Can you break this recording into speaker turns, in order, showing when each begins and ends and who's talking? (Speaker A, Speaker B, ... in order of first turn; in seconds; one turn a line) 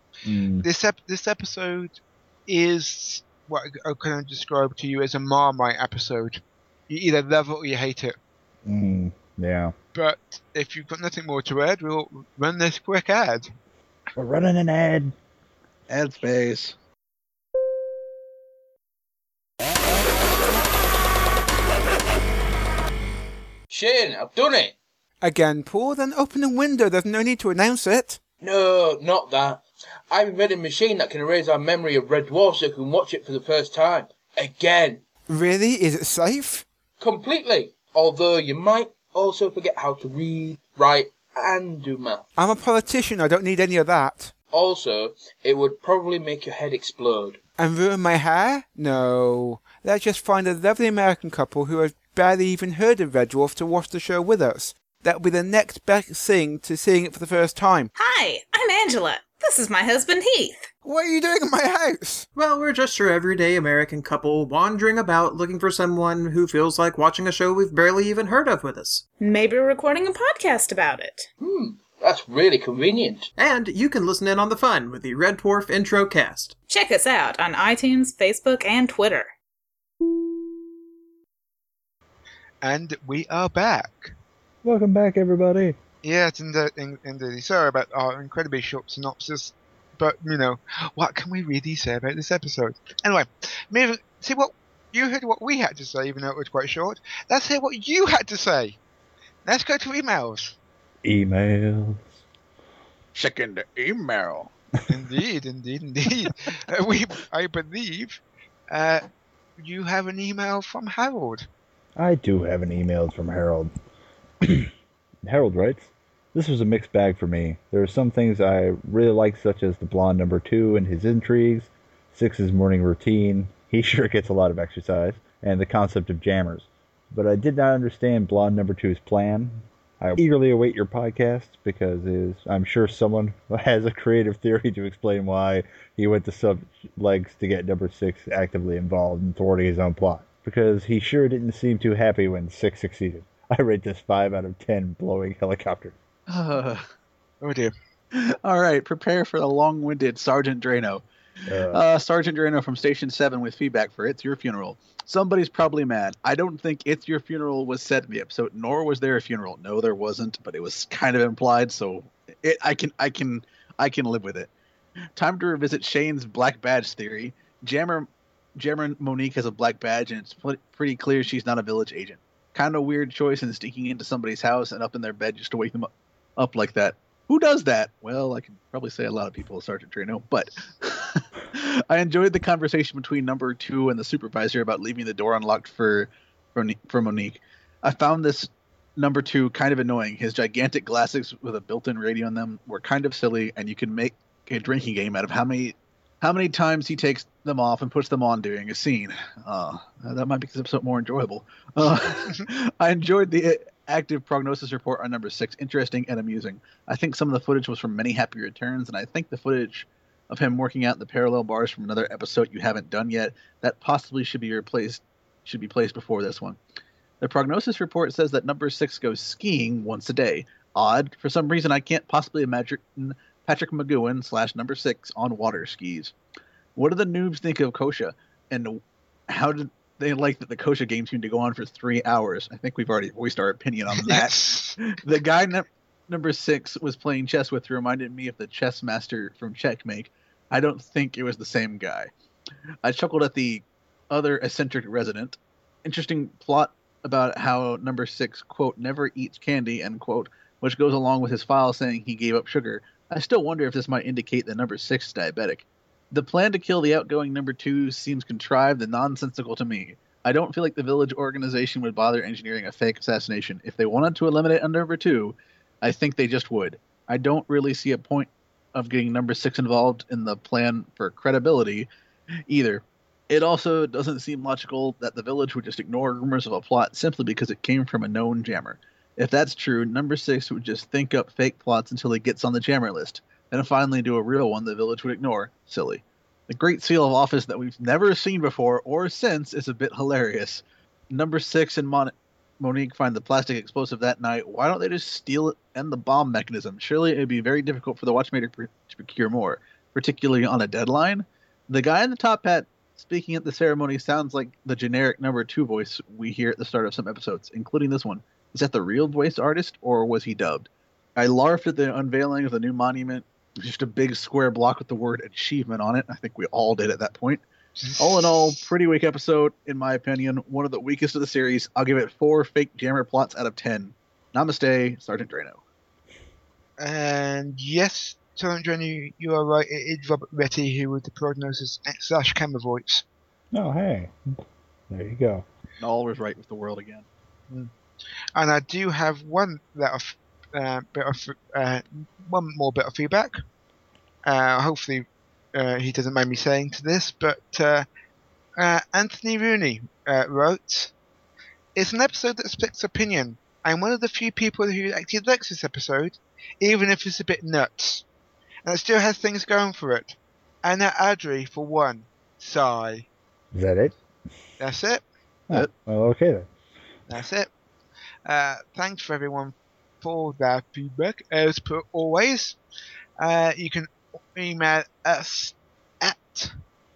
Speaker A: 0.2-0.7
Speaker B: 0.6-8.1
Speaker A: 8.6-9.7
Speaker B: 9.9-13.5
Speaker A: 14.1-15.1
Speaker C: 15.9-16.8
Speaker D: 23.7-24.7
Speaker B: 25.2-28.2
Speaker D: 28.4-35.0
Speaker B: 35.3-36.6
Speaker D: 37.0-42.2
Speaker B: 42.4-44.3
Speaker D: 44.5-47.4
Speaker B: 47.6-57.9
Speaker E: 58.0-60.7
Speaker B: 60.8-62.2
Speaker F: 62.4-69.0
Speaker E: 69.2-71.3
Speaker D: 71.4-73.3
Speaker F: 73.3-76.5
Speaker E: 76.7-79.3
Speaker B: 82.6-84.1
Speaker A: 84.6-85.8
Speaker B: 86.0-98.8
Speaker B: 99.4-100.5
Speaker A: 101.0-102.1
Speaker C: 103.1-104.5
Speaker B: 104.9-109.0
Speaker B: 109.6-111.5
Speaker A: 112.0-113.7
Speaker A: 114.4-114.7
Speaker A: 115.2-145.9
Speaker C: 146.3-146.8
Speaker B: 147.4-147.7
Speaker C: 148.1-151.0
Speaker A: 151.5-151.8
Speaker C: 151.7-164.5
Speaker C: 165.2-216.6
Speaker C: 217.2-226.1
Speaker C: 226.8-242.1
Speaker B: 234.0-234.8
Speaker C: 242.8-271.9
Speaker C: 272.5-317.4
Speaker B: 317.8-318.6
Speaker C: 318.0-325.6
Speaker B: 326.8-333.0
Speaker A: 333.5-335.4
Speaker C: 335.8-337.1
Speaker B: 338.3-343.4
Speaker B: 344.2-347.9
Speaker B: 348.6-350.9
Speaker B: 351.7-358.0
Speaker B: 358.6-363.1
Speaker A: 363.5-363.9
Speaker B: 364.6-365.0
Speaker A: 365.5-366.5
Speaker B: 367.1-367.5
Speaker B: 368.2-372.6
Speaker B: 373.2-376.5